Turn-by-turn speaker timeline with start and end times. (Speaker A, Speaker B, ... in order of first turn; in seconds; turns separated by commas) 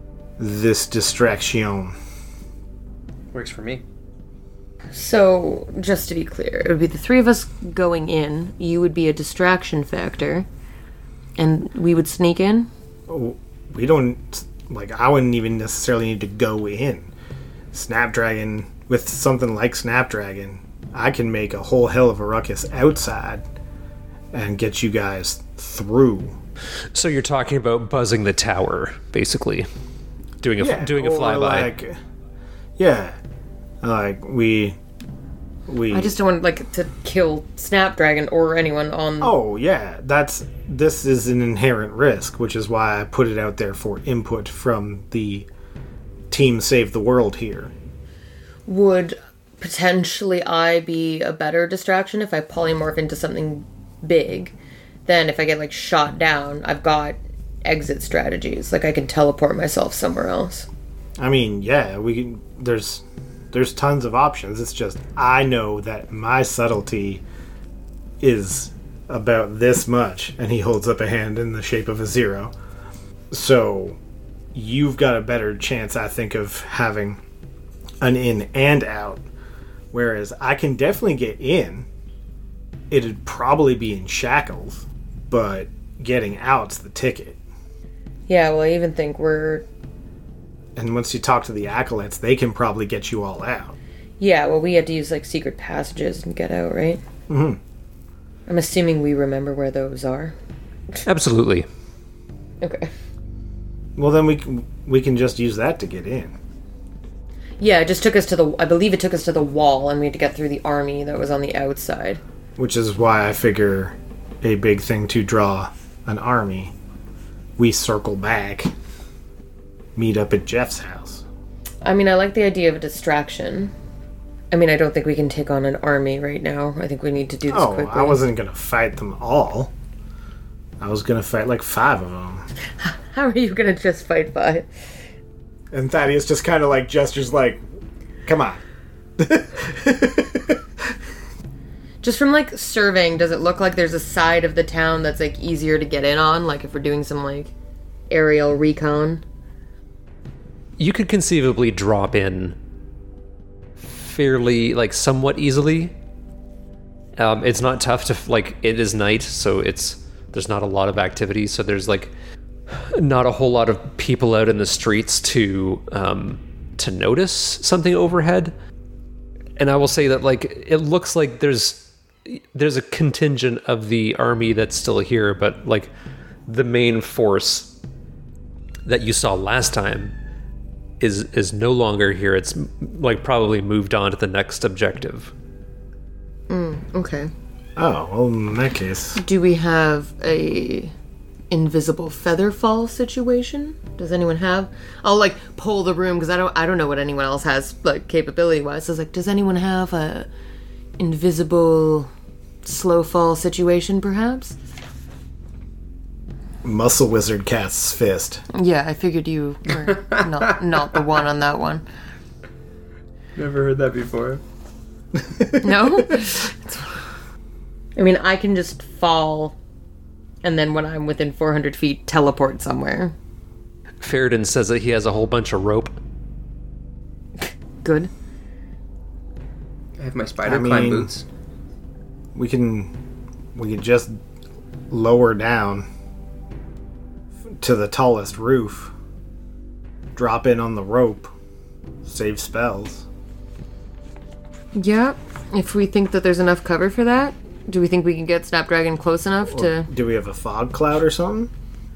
Speaker A: 0.4-1.9, Speaker B: 3.3-3.8, Speaker C: 4.9-10.5, Speaker C: 11.4-12.7, Speaker A: 13.1-17.1, Speaker A: 17.7-23.4, Speaker A: 24.3-26.4, Speaker D: 26.9-29.7, Speaker D: 30.4-31.7, Speaker A: 30.6-32.0, Speaker A: 32.8-33.2, Speaker A: 33.8-34.8, Speaker A: 35.7-36.1, Speaker C: 35.9-39.4, Speaker A: 39.2-45.5, Speaker A: 46.3-47.7, Speaker C: 48.7-54.5, Speaker C: 55.1-60.7, Speaker A: 61.2-67.2, Speaker A: 68.2-72.5, Speaker A: 73.3-74.0, Speaker A: 74.5-77.2, Speaker A: 78.0-79.2, Speaker A: 79.9-81.9, Speaker A: 82.9-87.4, Speaker C: 88.3-89.7, Speaker A: 90.8-93.8, Speaker C: 94.2-97.0, Speaker A: 97.3-97.6, Speaker C: 98.5-100.3, Speaker D: 101.0-101.7, Speaker C: 102.6-102.9, Speaker A: 104.0-106.4, Speaker C: 107.6-112.2, Speaker A: 112.6-116.7, Speaker A: 117.6-118.7, Speaker A: 120.0-121.2, Speaker C: 121.8-123.7, Speaker C: 124.5-128.2, Speaker A: 127.5-129.7, Speaker A: 130.8-132.5, Speaker C: 132.8-134.7, Speaker A: 135.7-137.6, Speaker A: 138.3-138.6, Speaker A: 139.2-140.9, Speaker C: 142.0-147.5, Speaker C: 148.1-149.2, Speaker D: 150.8-152.6, Speaker D: 153.9-155.9, Speaker D: 157.2-162.1, Speaker D: 162.7-168.5, Speaker D: 169.6-175.9, Speaker D: 176.5-177.8, Speaker D: 178.9-180.1, Speaker D: 181.0-185.3, Speaker C: 186.5-187.3, Speaker A: 187.8-189.2, Speaker C: 189.2-190.9, Speaker C: 191.5-200.3, Speaker C: 201.0-202.1, Speaker C: 202.6-204.6, Speaker A: 206.6-208.4, Speaker C: 208.5-211.8, Speaker B: 213.4-214.4, Speaker A: 215.2-216.2, Speaker C: 215.6-217.0, Speaker C: 218.0-219.6, Speaker C: 220.4-223.1, Speaker D: 224.0-226.0, Speaker C: 227.8-228.1, Speaker B: 230.0-231.2, Speaker A: 230.4-231.1, Speaker A: 232.3-232.9, Speaker A: 233.6-234.2, Speaker A: 234.9-235.9, Speaker A: 237.6-238.9, Speaker A: 240.2-241.3, Speaker A: 242.0-243.1, Speaker C: 244.7-249.9, Speaker A: 249.5-251.5